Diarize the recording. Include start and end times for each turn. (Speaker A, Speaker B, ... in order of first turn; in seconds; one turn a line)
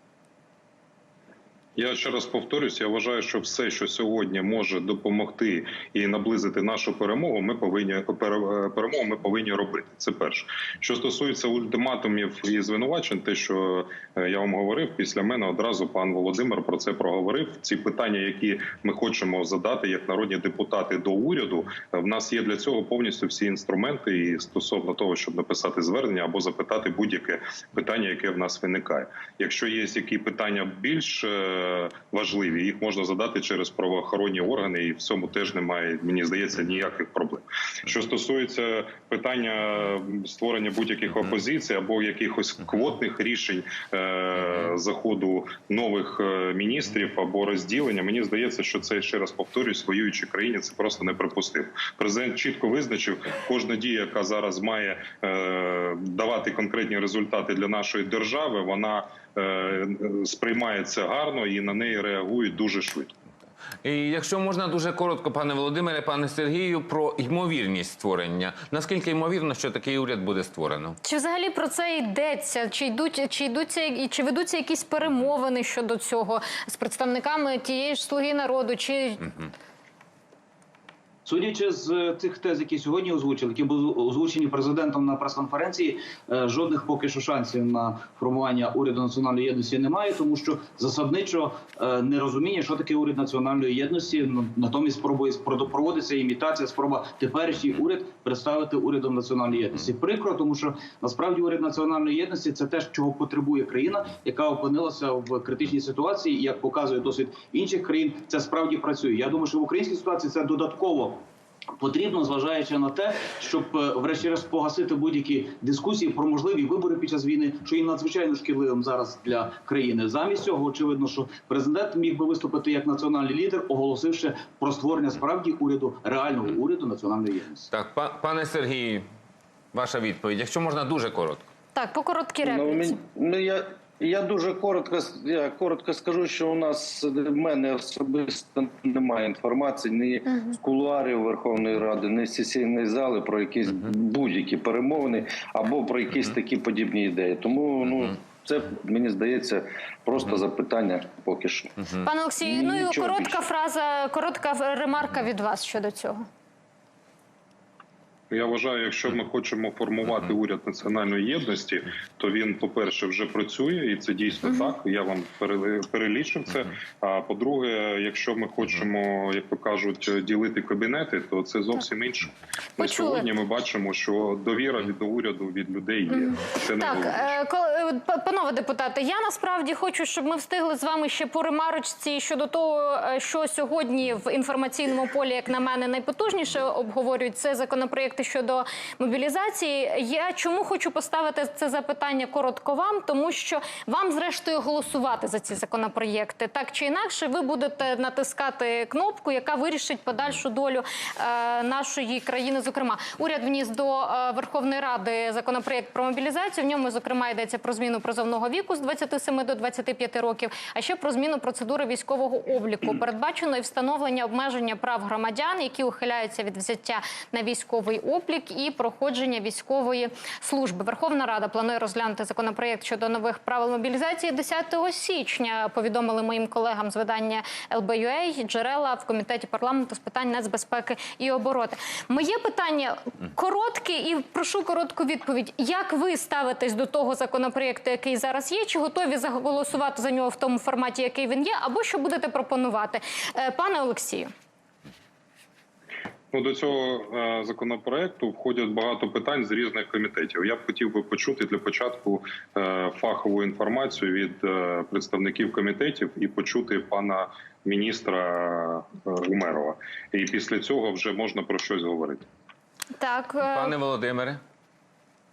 Speaker A: 1.8-63.1
Speaker B: 63.8-71.0
Speaker C: 71.0-79.2
Speaker D: 81.2-111.2
Speaker D: 111.8-127.7
Speaker B: 127.7-129.0
Speaker B: 129.7-131.5
Speaker C: 131.7-132.9
Speaker E: 132.4-151.8
Speaker C: 152.0-156.2
Speaker E: 152.4-153.4
Speaker A: 158.3-177.3
Speaker C: 172.8-173.3
Speaker C: 176.1-244.3
Speaker A: 246.3-262.2
Speaker C: 263.0-263.7
Speaker B: 263.4-264.4